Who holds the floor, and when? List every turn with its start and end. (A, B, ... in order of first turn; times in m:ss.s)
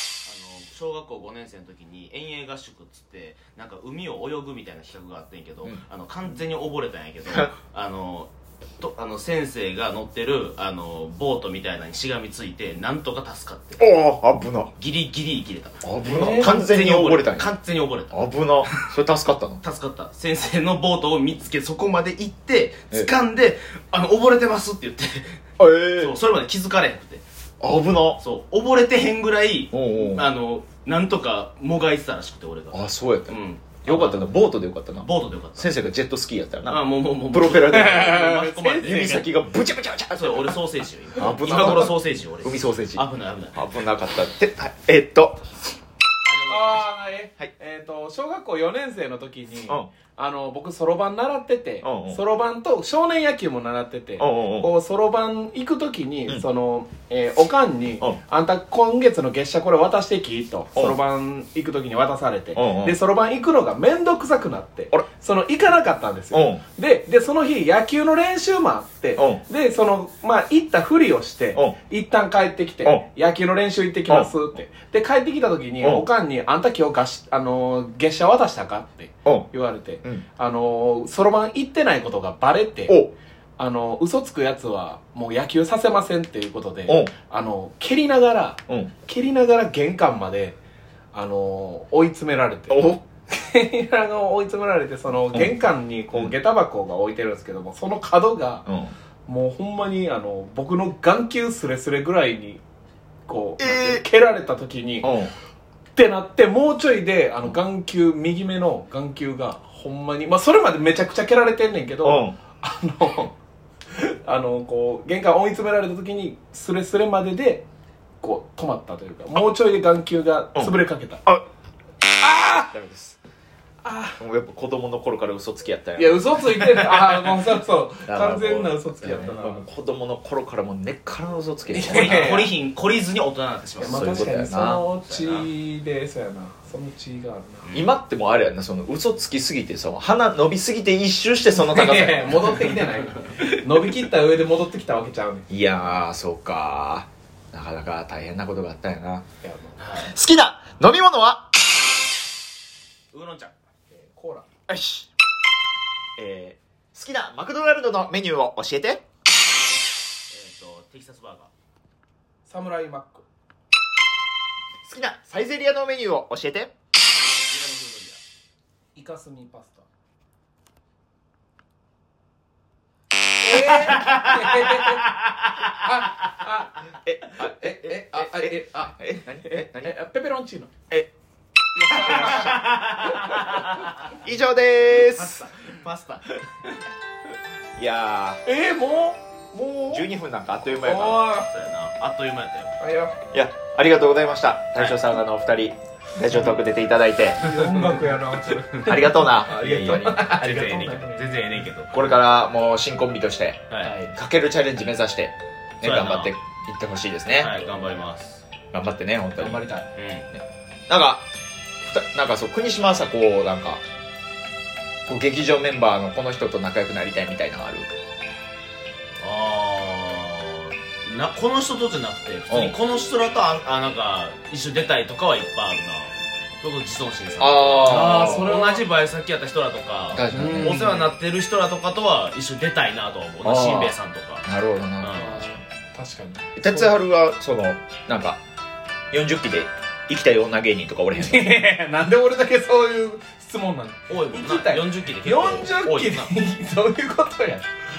0:00.2-0:13.8 A
0:13.8-0:14.7 B
0:14.8-0:18.9 A
0:15.8-0:17.5 B
0:16.0-0:16.6 C
0:18.1-0:19.6 B
0:19.6-0:25.4 A
0:25.6-0:26.2 B
0:26.0-0:27.2 A
0:27.6-0:28.2 B
0:28.2-0:34.4 A
0:29.7-0:30.3 B
0:32.7-0:38.3 B
0:35.0-0:35.9 A
0:36.7-0:39.3 A
0:37.9-0:39.2 C
0:38.8-0:40.6 B
0:40.1-0:43.7 A
0:41.2-0:45.4 B
0:46.3-0:46.8 A
0:46.4-1:23.0 C
0:51.8-0:52.2 B
0:54.2-0:54.7 B
1:02.6-1:03.0 B
1:06.3-1:06.6 B
1:15.8-1:16.1 B
1:22.9-1:23.1 B
1:23.6-1:30.6 C
1:26.9-1:27.1 B
1:31.1-1:32.8 C
1:32.7-1:33.0 B
1:33.3-1:38.6 C
1:38.7-1:38.9 B
1:39.3-1:42.6 C
1:43.3-1:45.1 C
1:43.6-1:44.0 B
1:45.0-1:45.3 B
1:46.0-1:53.3 C
1:52.0-1:52.4 B
1:53.9-1:57.7 C
1:58.2-2:01.2 C
2:00.6-2:01.4 B
2:02.2-2:02.7 C
2:02.5-2:03.2 B
2:03.8-2:04.2 C
2:04.2-2:06.4 B
2:06.0-2:09.6 C
2:08.1-2:12.4 B
2:11.7-2:12.5 C
2:11.8-2:14.3 A
2:13.8-2:17.8 C
2:13.8-2:14.9 B
2:15.1-2:15.5 A
2:17.6-2:17.9 A
2:17.7-2:22.6 B
2:21.5-2:25.5 C
2:25.5-2:29.2 B
2:29.4-2:29.9 C
2:29.8-2:30.2 A
2:30.0-2:31.5 B
2:33.1-2:33.5 A
2:33.9-2:34.5 C
2:34.7-2:35.1 B
2:36.2-2:39.0 B
2:40.3-2:41.5 A
2:42.5-2:43.3 C
2:44.8-2:46.7 B
2:47.5-2:48.2 A
2:49.0-2:49.9 C
2:53.4-2:55.1 C
2:53.9-2:55.0 A
2:55.7-2:59.0 C
2:57.0-2:59.9 B
2:59.8-3:00.7 C
3:01.8-3:03.4 C
3:01.9-3:03.9 A
3:04.2-3:05.4 B
3:04.8-3:06.7 A
3:07.8-3:08.4 B
3:08.4-3:10.1 C
3:09.9-3:11.3 B
3:10.8-3:11.5 C
3:11.3-3:12.8 A
3:12.8-3:13.2 C
3:13.3-3:17.4 B
3:14.7-3:15.2 A
3:17.4-3:21.4 C
3:18.8-3:20.2 B
3:19.5-3:21.9 A
3:21.9-3:27.5 B
3:23.7-3:24.0 A
3:23.8-3:24.1 C
3:25.8-3:26.3 A
3:27.3-3:28.4 A
3:28.7-3:29.7 B
3:29.4-3:29.8 C
3:29.9-3:30.3 A
3:30.3-3:31.2 B
3:31.8-3:33.8 B
3:35.1-3:37.9 B
3:39.2-3:54.5 A
3:42.5-3:42.8 B
3:47.4-3:48.5 B
3:47.8-3:48.9 C
3:50.1-3:50.8 B
3:50.3-3:51.1 C
3:53.4-3:55.2 B
3:55.0-3:55.5 A
3:55.1-3:57.0 C
3:56.6-3:58.4 B
3:59.1-4:01.6 B
4:01.1-4:07.7 C
4:04.1-4:06.4 A